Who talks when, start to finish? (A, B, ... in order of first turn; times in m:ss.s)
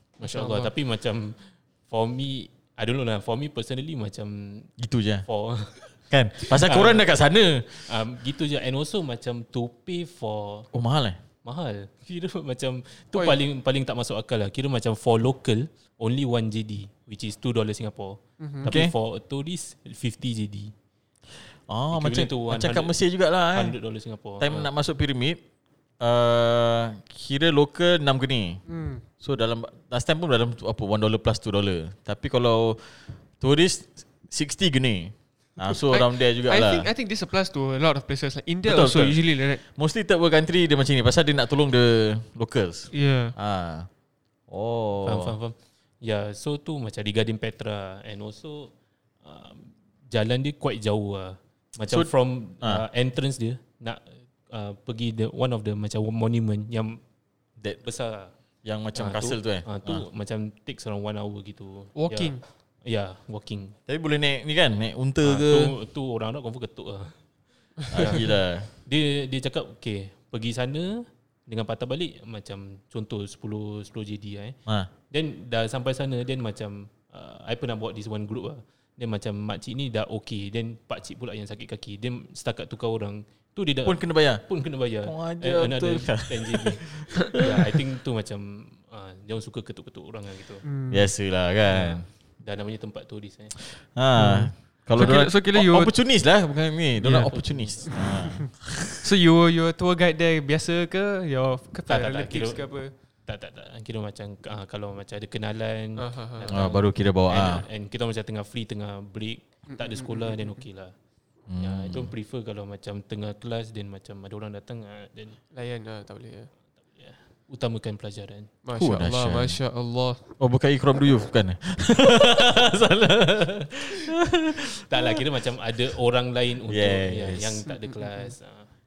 0:00.2-0:04.7 A
0:00.2-0:00.7 B
0:04.8-0:05.2 C
0:05.2-0:07.0 A
0:06.1-0:07.9 C
0:07.8-0:10.7 A
0:10.7-0:11.2 C
0:11.4-0:20.7 A
0:18.4-0:18.7 B
0:18.7-0:18.9 C
0:21.7-0:23.7 C
0:21.9-0:22.9 A
0:23.5-0:24.7 A
0:24.4-0:25.4 C
0:26.0-0:28.6 C
0:28.7-0:29.0 B
0:29.2-0:36.9 C
0:35.7-0:39.6 B
0:38.6-0:43.9 C
0:42.9-0:43.3 B
0:44.5-0:45.3 C
0:45.0-0:48.7 A
0:49.2-0:57.0 A
0:57.8-0:58.3 A
0:58.6-1:00.0 C
0:58.9-1:03.8 A
1:02.0-1:02.4 B
1:03.9-1:05.7 C
1:05.2-1:07.2 A
1:07.9-1:08.2 A
1:07.9-1:08.7 C
1:08.8-1:14.6 A
1:15.1-1:30.6 A
1:23.8-1:24.4 C
1:25.0-1:27.8 C
1:30.6-1:31.1 B
1:30.9-1:32.0 C
1:31.7-1:33.6 A
1:33.7-1:38.9 C
1:34.2-1:35.9 B
1:37.0-1:37.3 B
1:37.3-1:38.2 A
1:38.0-1:42.9 B
1:41.9-1:42.7 A
1:43.2-1:50.9 A
1:46.0-1:46.5 B
1:46.5-1:47.6 C
1:49.7-1:50.6 B
1:51.5-1:52.1 C
1:51.6-1:55.4 A
1:55.5-1:56.5 B
1:56.9-1:58.5 A
1:58.6-2:00.3 B
1:58.8-1:59.6 C
2:00.4-2:04.8 C
2:04.8-2:08.7 A
2:06.7-2:07.6 C
2:07.8-2:08.3 B